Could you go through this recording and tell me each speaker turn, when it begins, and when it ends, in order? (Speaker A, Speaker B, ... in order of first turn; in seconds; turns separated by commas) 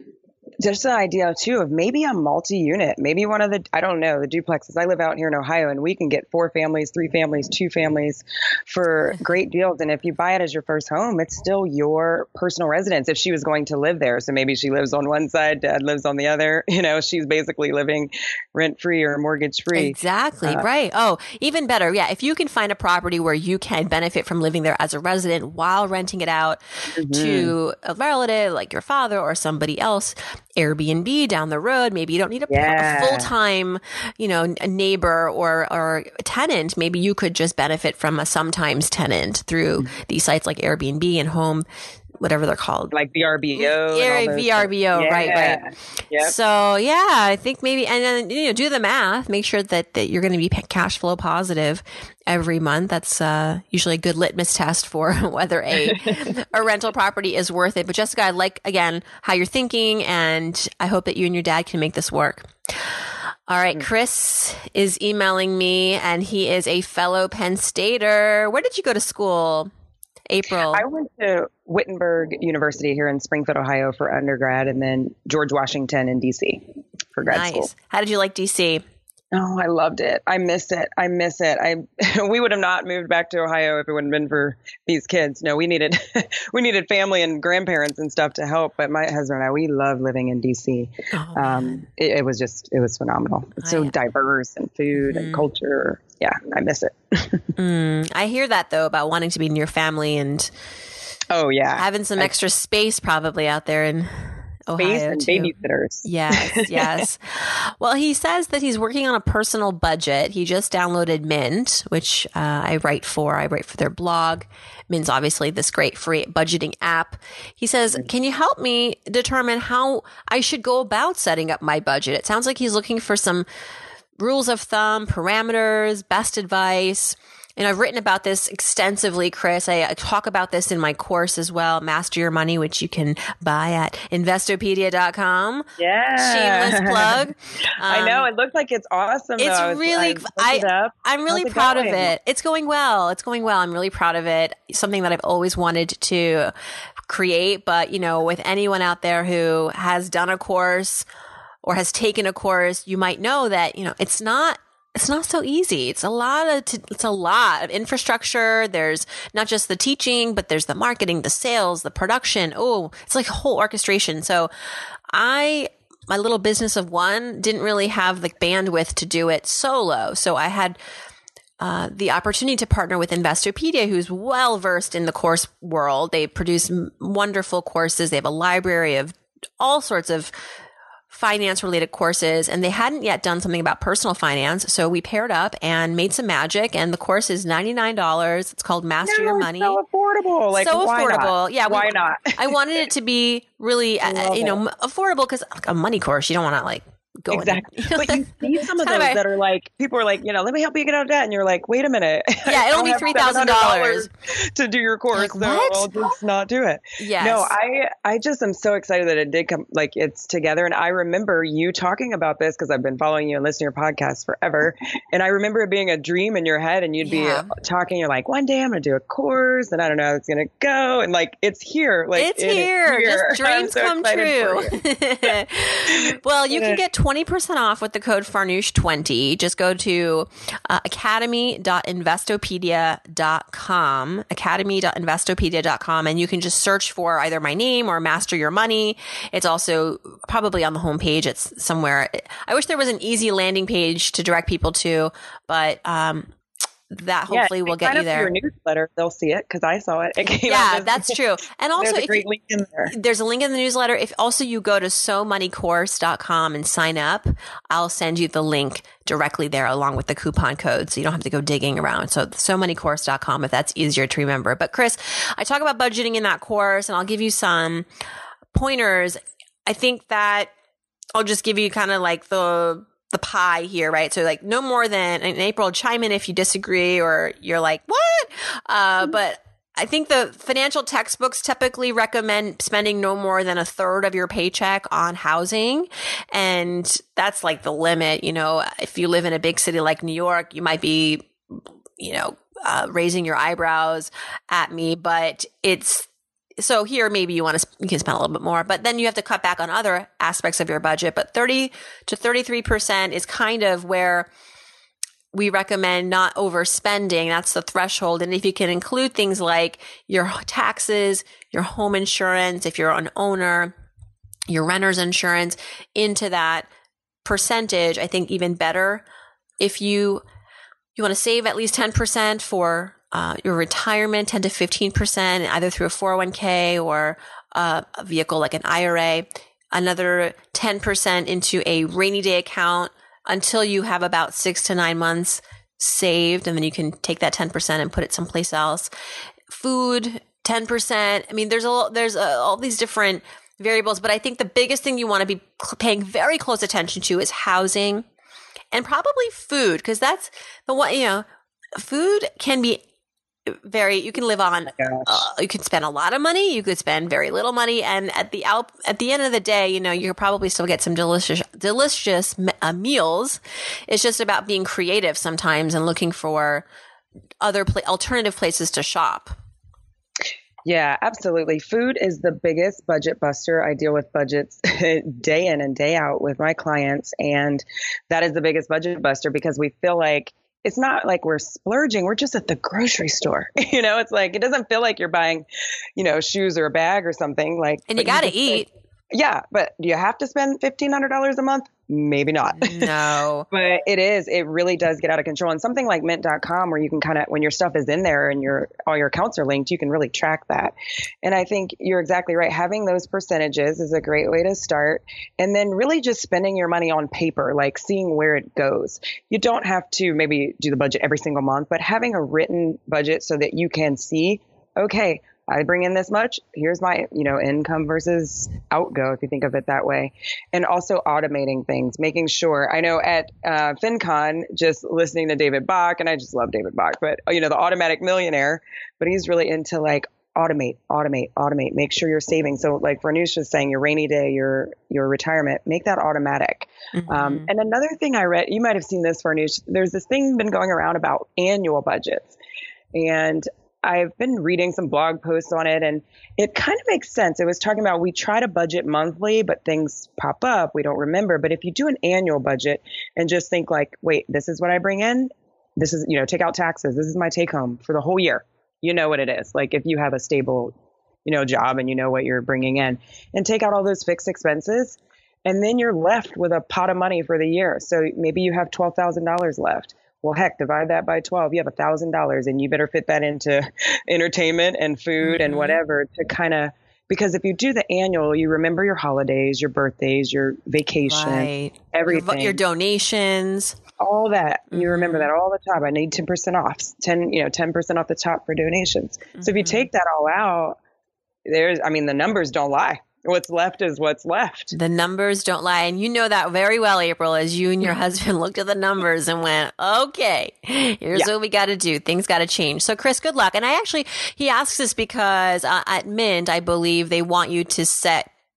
Speaker A: 0.6-20.6, Speaker B: 19.7-41.6, Speaker A: 26.9-27.5, Speaker A: 32.5-33.3, Speaker B: 42.2-42.9, Speaker A: 42.9-46.3, Speaker B: 43.6-45.6, Speaker B: 46.2-62.9, Speaker A: 55.9-56.3, Speaker B: 63.5-69.7, Speaker B: 70.3-70.8, Speaker A: 70.7-76.6, Speaker A: 77.1-77.7, Speaker B: 77.2-78.8, Speaker A: 79.3-97.5, Speaker B: 91.1-91.8, Speaker B: 93.6-93.9, Speaker B: 95.0-95.5, Speaker B: 97.6-100.5, Speaker A: 101.3-102.3, Speaker B: 101.8-123.5, Speaker A: 104.8-107.1, Speaker B: 124.2-138.3, Speaker A: 135.8-137.2, Speaker A: 137.8-142.1, Speaker B: 139.4-146.5, Speaker B: 147.1-151.1, Speaker B: 151.6-164.5, Speaker B: 165.1-170.8, Speaker B: 171.6-180.3, Speaker B: 181.1-189.8, Speaker A: 189.0-192.5, Speaker B: 190.5-199.2, Speaker A: 194.0-194.6, Speaker A: 197.3-225.3, Speaker B: 202.4-204.1, Speaker B: 205.1-205.9, Speaker B: 207.0-207.5, Speaker B: 217.0-217.5, Speaker B: 222.1-246.3, Speaker A: 225.9-226.8, Speaker B: 246.9-248.3, Speaker A: 247.3-251.2, Speaker B: 250.4-252.3, Speaker A: 251.8-252.9, Speaker B: 252.9-267.9, Speaker B: 268.5-270.5, Speaker B: 271.1-296.1, Speaker B: 296.6-304.3, Speaker B: 305.3-313.7, Speaker B: 314.5-316.7, Speaker B: 317.2-319.0, Speaker B: 319.6-320.2, Speaker B: 320.9-338.9, Speaker B: 339.5-348.1, Speaker B: 348.7-351.2, Speaker B: 351.8-352.8, Speaker B: 353.5-366.6, Speaker A: 354.8-355.2, Speaker B: 367.4-369.3, Speaker A: 370.6-388.6, Speaker B: 387.9-388.7, Speaker A: 389.1-392.9, Speaker B: 392.6-393.5, Speaker A: 393.5-442.3, Speaker B: 436.9-437.5, Speaker A: 442.9-460.7, Speaker A: 461.2-482.6, Speaker B: 475.2-475.8, Speaker B: 481.0-483.8, Speaker A: 484.0-490.8, Speaker B: 484.7-485.3, Speaker B: 489.4-489.9, Speaker A: 491.4-494.7, Speaker B: 494.7-508.3